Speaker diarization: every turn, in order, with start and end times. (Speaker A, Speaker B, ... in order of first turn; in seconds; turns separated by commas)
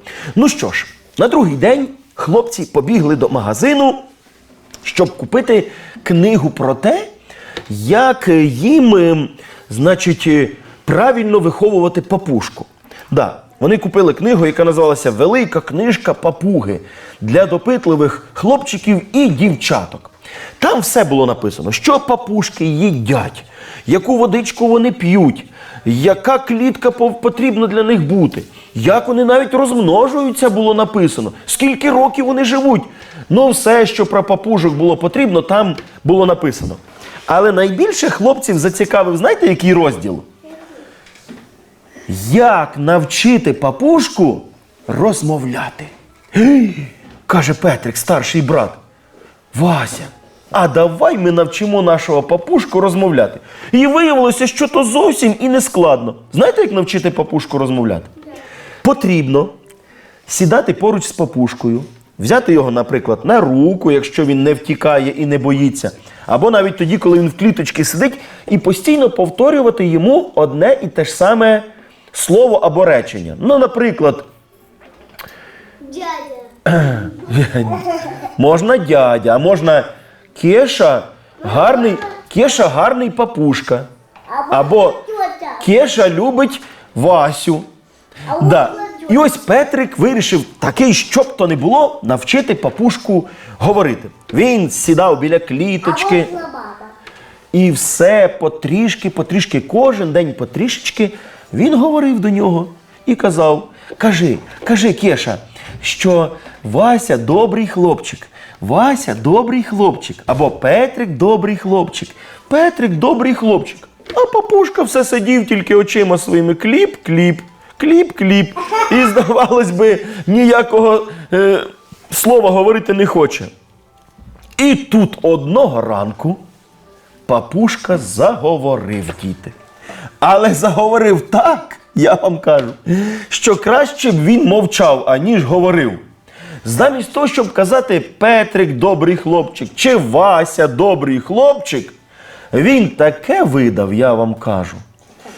Speaker A: 0.3-4.0, Speaker A: 4.8-7.1, Speaker A: 7.7-40.3, Speaker A: 42.1-48.8, Speaker A: 49.5-58.1, Speaker A: 58.8-59.5, Speaker A: 60.3-74.2, Speaker B: 75.8-76.5, Speaker A: 76.7-83.9, Speaker B: 81.4-82.0, Speaker B: 84.3-85.7, Speaker A: 84.5-85.0, Speaker A: 85.6-87.7, Speaker B: 88.3-89.2, Speaker A: 88.3-96.3, Speaker B: 95.8-96.9, Speaker A: 97.5-123.5, Speaker A: 124.6-126.4, Speaker A: 127.2-129.5, Speaker A: 130.2-136.0, Speaker A: 136.6-141.9, Speaker A: 142.5-144.8